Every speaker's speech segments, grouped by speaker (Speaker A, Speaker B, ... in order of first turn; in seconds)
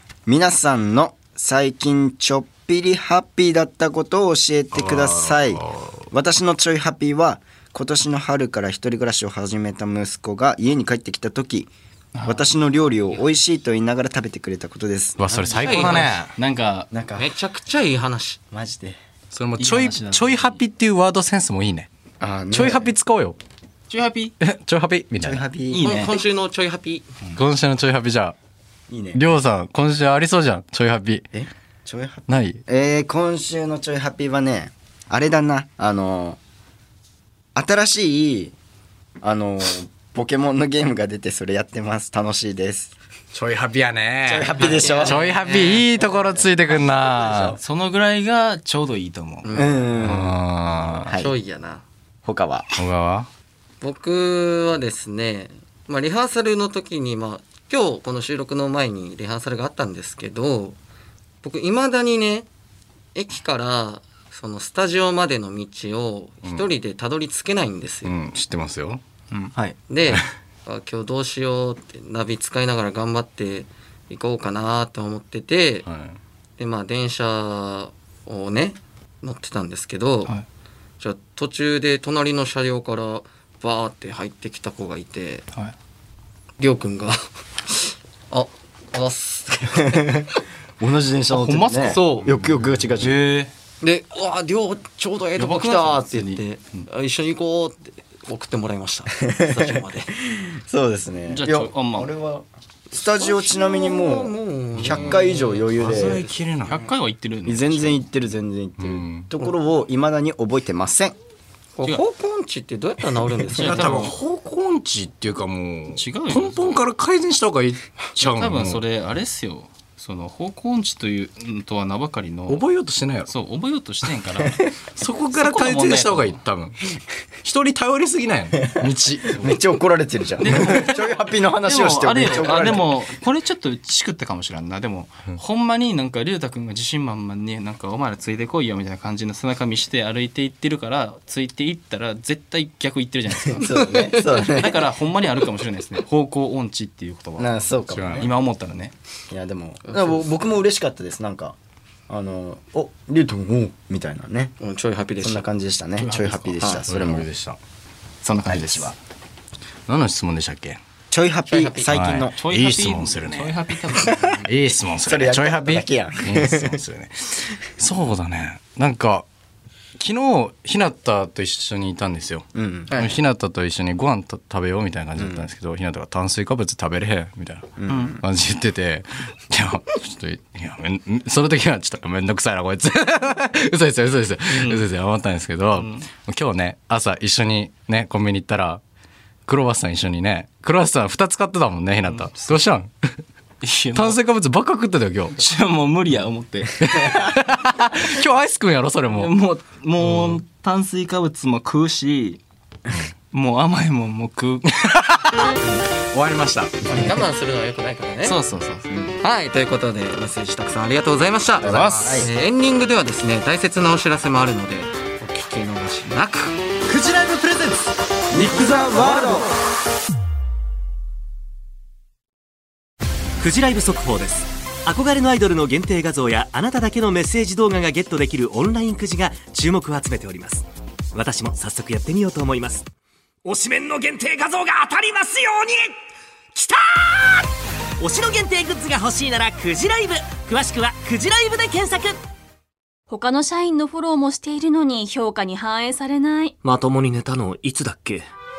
Speaker A: 0.2-11.7, 12.2-16.1, 16.9-17.3, 18.5-19.0, 22.2-22.9, 25.2-25.9, 28.9-29.2, 31.3-36.4, 37.5-38.5, 39.2-42.9, 44.2-45.2, 47.0-47.6, 49.5-50.3, 51.0-51.3, 52.2-52.7, 89.9-90.3, 90.8-93.1, 100.2-106.2, 107.4-111.1, 129.3-132.9, 143.5-144.8, 147.4-148.3, 149.3-151.6, 152.1-154.5, 155.2-157.3, 158.5-158.9, 161.1-162.3, 165.0-166.8, 172.5-172.9, 175.2-175.4, 177.8-178.2, 208.9-209.1, 211.6-212.3, 218.3-219.5
Speaker B: 4.7-6.0, 15.2-16.3, 19.3-21.9, 22.5-23.4, 24.4-25.4, 27.3-28.3, 29.1-31.2, 32.3-32.6, 43.3-47.6, 50.0-51.1, 52.8-53.3, 68.0-69.0, 75.8-76.2, 105.8-106.8, 108.8-109.3, 113.6-118.8, 122.5-123.3, 125.0-126.8, 127.4-129.3, 147.9-148.3, 156.8-157.6, 159.9-160.8, 161.9-163.6, 164.5-169.2, 170.0-188.8, 189.5-192.9, 193.9-195.4, 196.8-199.3, 204.7-205.5, 206.0-206.8
Speaker C: 12.1-12.5, 15.7-16.9, 19.6-20.6, 23.9-24.3, 25.7-26.1, 47.6-49.6, 91.3-93.5, 95.3-96.8, 101.3-102.1, 104.8-105.4, 106.7-108.0, 113.5-114.1, 115.9-116.8, 118.2-122.6, 123.3-126.4, 130.4-143.7, 144.4-148.9, 156.0-156.6, 158.2-159.0, 162.4-164.5, 177.9-178.2, 184.5-184.9, 185.7-186.1, 192.0-192.6, 193.6-194.2, 195.3-196.7, 199.1-202.4, 203.3-204.7, 208.2-208.9, 211.7-212.2
Speaker D: 15.6-16.1, 17.1-18.4, 25.7-27.1, 44.6-46.1, 49.4-49.9, 51.1-51.8, 53.8-60.8, 61.4-62.5, 63.1-68.1, 69.9-75.8, 76.6-80.3, 81.0-85.4, 86.6-90.2, 93.8-100.2, 103.2-106.4, 111.8-114.0, 143.7-144.6, 149.8-150.3, 154.6-155.5, 161.5-161.9, 206.9-208.4, 209.2-216.5
Speaker E: 223.4-232.8, 233.4-235.9, 236.5-237.5, 238.0-242.2, 246.6-248.3
Speaker F: 243.1-246.5